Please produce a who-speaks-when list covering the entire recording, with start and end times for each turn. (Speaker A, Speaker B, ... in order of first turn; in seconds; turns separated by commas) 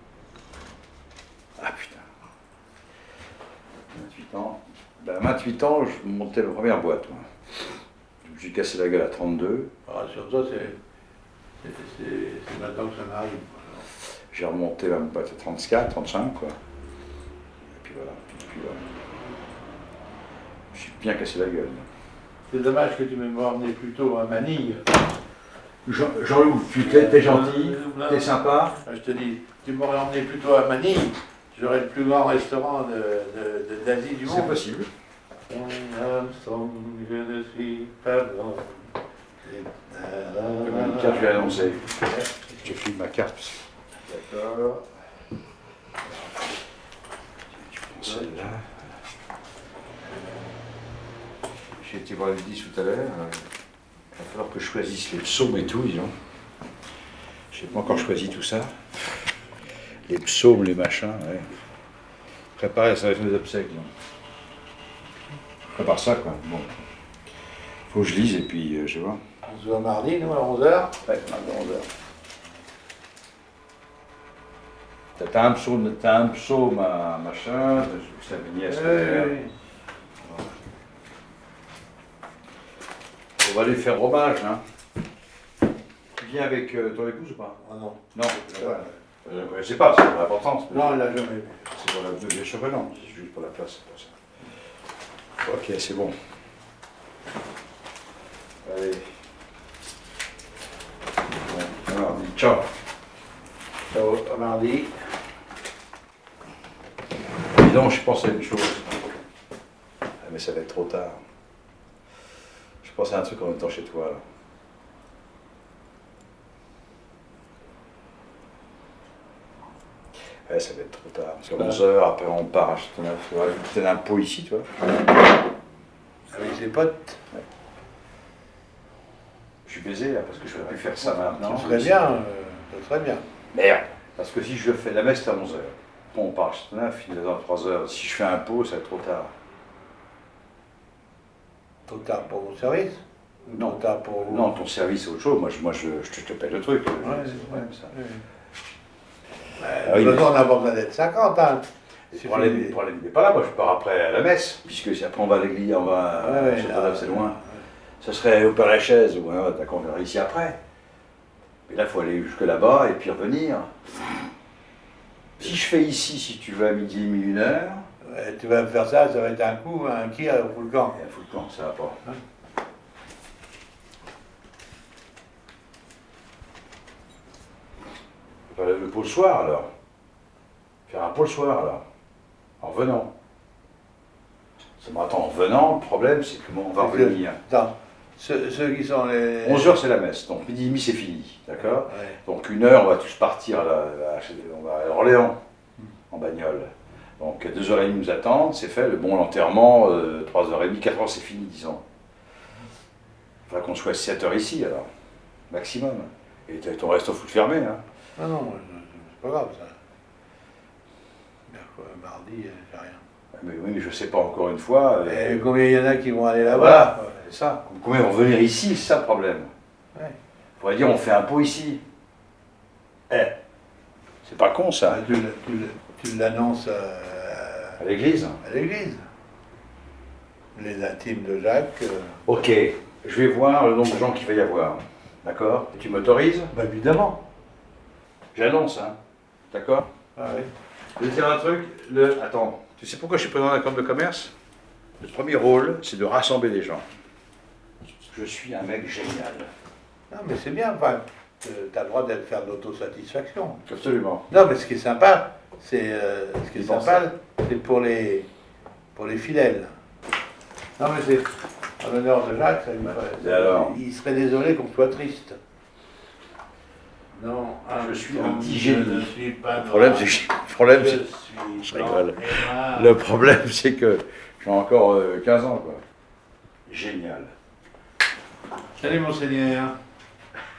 Speaker A: 1.6-2.0, Speaker A: 3.9-7.2, Speaker A: 8.2-9.7, Speaker B: 9.9-10.8, Speaker B: 11.6-13.8, Speaker A: 14.3-16.6, Speaker A: 17.7-18.9, Speaker A: 20.7-21.9, Speaker B: 22.5-24.9, Speaker A: 25.8-28.8, Speaker B: 26.7-34.6, Speaker A: 34.2-34.9, Speaker B: 35.5-38.9, Speaker B: 39.4-42.7, Speaker A: 40.6-42.0, Speaker A: 42.6-43.6, Speaker B: 44.1-44.8, Speaker A: 47.6-48.7, Speaker B: 48.0-48.4, Speaker A: 51.8-53.4, Speaker A: 54.1-56.1, Speaker A: 57.5-59.2, Speaker A: 60.1-61.5, Speaker A: 62.6-63.9, Speaker A: 65.7-66.8, Speaker A: 67.9-69.2, Speaker B: 69.5-70.9, Speaker A: 71.0-71.9, Speaker A: 75.2-79.4, Speaker B: 78.7-79.5, Speaker A: 83.4-84.6, Speaker A: 86.1-87.6, Speaker B: 87.6-88.9, Speaker A: 88.1-91.0, Speaker B: 90.7-91.7, Speaker A: 91.7-94.2, Speaker A: 95.4-96.1, Speaker A: 98.6-99.0, Speaker A: 101.4-102.7, Speaker B: 103.9-104.9, Speaker A: 107.5-109.2, Speaker A: 110.2-111.2, Speaker A: 112.8-114.2, Speaker A: 120.5-124.7, Speaker B: 126.3-127.2, Speaker A: 129.7-132.1, Speaker B: 130.8-133.2, Speaker A: 133.5-139.3, Speaker B: 141.9-144.5, Speaker A: 143.6-147.9, Speaker B: 147.0-148.2, Speaker B: 149.6-151.6, Speaker A: 149.8-150.4, Speaker A: 152.1-157.4, Speaker B: 152.2-152.8, Speaker B: 156.2-157.6, Speaker A: 158.0-160.6, Speaker A: 161.7-163.9, Speaker A: 165.4-167.8, Speaker B: 168.0-171.0, Speaker A: 170.9-172.0, Speaker A: 178.5-179.7, Speaker A: 180.9-181.8, Speaker A: 182.6-183.1, Speaker A: 184.8-187.4, Speaker B: 186.8-189.8, Speaker A: 189.4-195.3, Speaker B: 191.7-192.2, Speaker A: 196.1-201.8, Speaker A: 203.5-204.8, Speaker A: 205.5-207.8, Speaker B: 208.2-209.8, Speaker B: 211.5-213.0, Speaker A: 213.3-215.4, Speaker B: 215.1-217.1, Speaker A: 216.4-219.5, Speaker A: 220.6-221.8, Speaker A: 223.1-223.3, Speaker A: 224.2-225.0, Speaker B: 224.9-227.8, Speaker A: 227.8-228.4, Speaker B: 228.4-229.0, Speaker B: 230.5-232.2, Speaker A: 232.2-236.5, Speaker B: 236.5-237.2, Speaker A: 238.3-238.9, Speaker A: 239.5-239.8, Speaker B: 240.2-240.5, Speaker A: 241.0-244.3, Speaker A: 245.0-246.8, Speaker A: 248.1-249.5, Speaker B: 250.1-253.6, Speaker A: 253.7-254.2, Speaker B: 254.3-258.3, Speaker A: 256.5-257.1, Speaker B: 258.9-259.7, Speaker B: 260.8-265.4, Speaker A: 262.8-263.8, Speaker B: 267.1-273.0, Speaker A: 267.7-271.0, Speaker A: 271.6-275.8, Speaker A: 276.7-277.3, Speaker B: 278.8-279.8